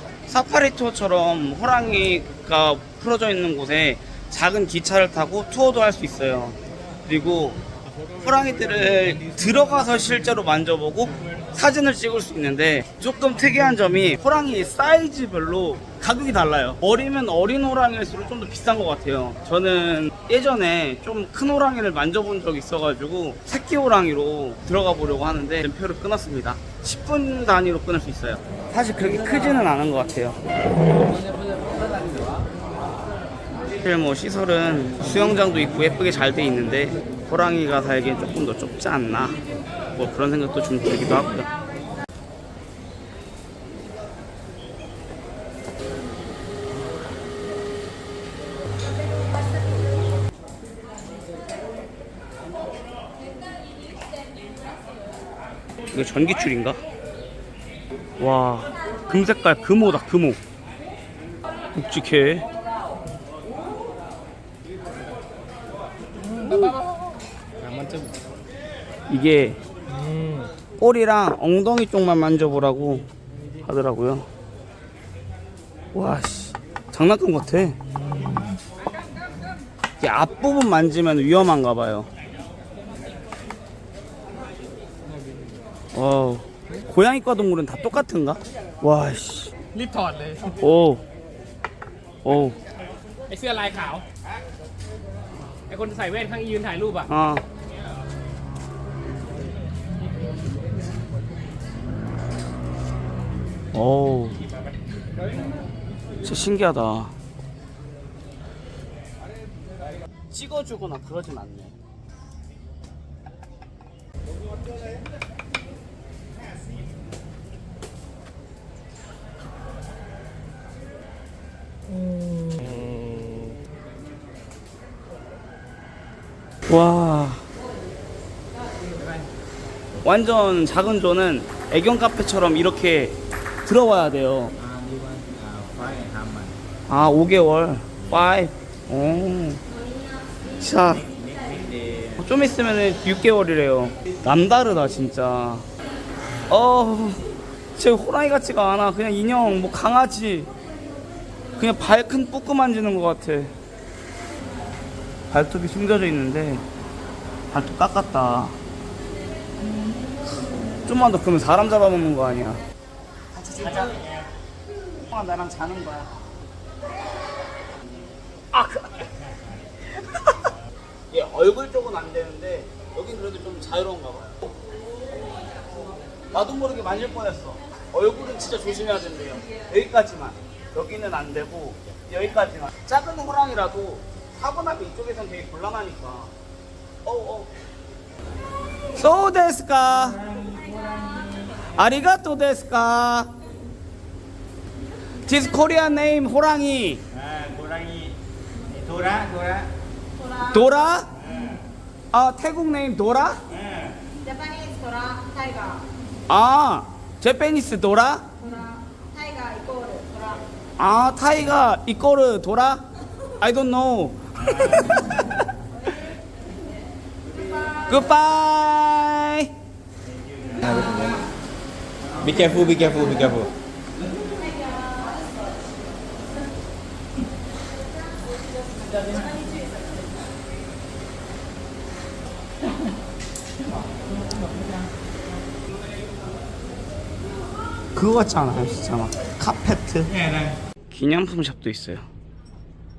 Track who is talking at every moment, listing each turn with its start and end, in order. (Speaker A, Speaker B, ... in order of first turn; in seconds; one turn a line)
Speaker A: 0.3-7.6
Speaker A: 8.2-30.4
Speaker A: 33.7-39.4
Speaker A: 39.9-41.5
Speaker A: 55.9-56.8
Speaker A: 58.2-60.4
Speaker A: 61.7-62.5
Speaker A: 69.1-69.6
Speaker A: 70.8-73.0
Speaker A: 73.6-74.3
Speaker A: 75.9-77.8
Speaker A: 80.0-82.1
Speaker A: 85.9-89.5
Speaker B: 89.7-90.4
Speaker A: 90.5-91.0
Speaker A: 92.2-92.6
Speaker B: 93.3-94.0
Speaker B: 95.7-97.0
Speaker A: 97.0-97.4
Speaker A: 103.7-104.4
Speaker A: 106.2-107.1
Speaker A: 110.3-111.7
Speaker A: 126.7-127.4
Speaker A: 130.0-134.6
Speaker C: 134.8-136.5
Speaker A: 136.9-139.6
Speaker A: 140.6-141.1
Speaker C: 141.4-142.0
Speaker A: 142.2-145.7
Speaker A: 146.5-147.2
Speaker A: 147.7-150.5
Speaker A: 151.6-153.5
Speaker A: 155.3-156.6
Speaker A: 157.5-158.6
Speaker A: 160.8-162.6
Speaker A: 163.3-164.0
Speaker A: 165.0-166.1
Speaker A: 168.5-169.1
Speaker A: 171.1-174.5
Speaker A: 176.3-186.3
Speaker A: 187.0-187.5
Speaker A: 188.9-190.2
Speaker A: 191.7-193.3
Speaker A: 195.2-197.0
Speaker C: 197.4-198.1
Speaker C: 198.7-199.7
Speaker A: 200.3-201.1
Speaker A: 202.1-203.4
Speaker D: 204.2-205.9
Speaker A: 206.3-208.3
Speaker D: 208.5-210.4
Speaker A: 210.8-212.8
Speaker A: 213.4-215.1
Speaker A: 217.9-219.5
Speaker C: 220.6-221.2
Speaker C: 222.2-223.5
Speaker A: 237.9-240.2
Speaker A: 240.9-242.1